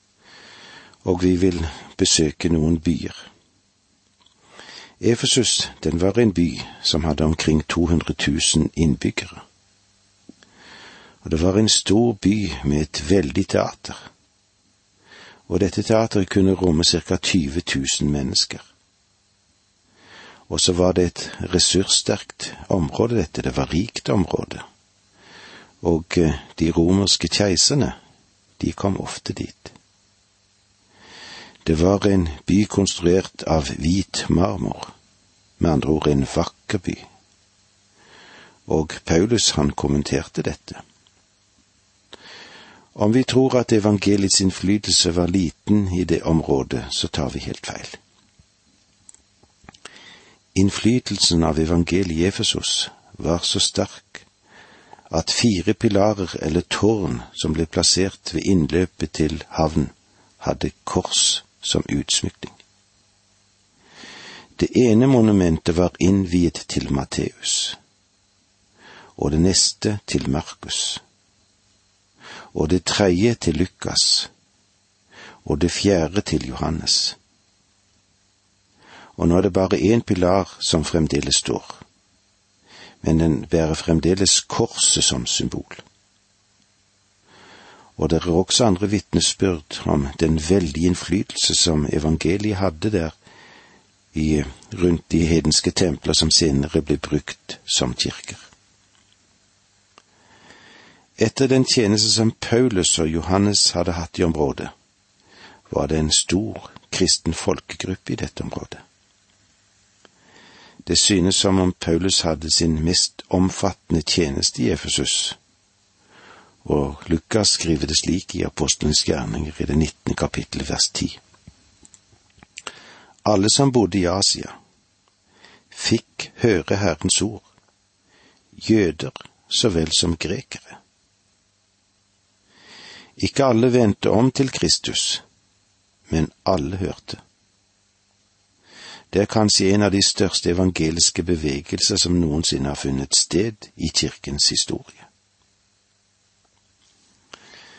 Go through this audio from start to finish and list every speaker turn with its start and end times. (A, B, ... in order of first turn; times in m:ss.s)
0:01.0-0:03.3 A
0:05.0-0:09.4 A
0:11.2-0:14.1 A
0:15.5-0:18.6 A
0:20.5-0:24.6 A
0:25.8-0:28.0 A
0:28.6-0:29.7 A
0:31.6-0:34.9 A
0:35.6-0:37.0 A
0:38.7-0:40.8 A
0:42.9-0:48.0 A
0:50.5-0:54.3 A
0:55.1-1:02.6 A
1:04.6-1:07.8 A
1:09.2-1:11.0 A
1:12.5-1:14.3 A
1:15.4-1:17.2 A
1:19.2-1:21.8 A
1:23.0-1:25.8 A
1:28.0-1:33.1 A
1:34.1-1:38.4 A
1:41.2-1:44.7 A
1:45.7-1:48.8 A
1:50.8-1:55.4 A
1:56.6-2:01.2 A
2:03.2-2:04.6 A
2:05.7-2:07.4 A
2:08.5-2:10.8 A
2:13.2-2:15.2 A
2:16.1-2:17.2 A
2:19.1-2:25.1 A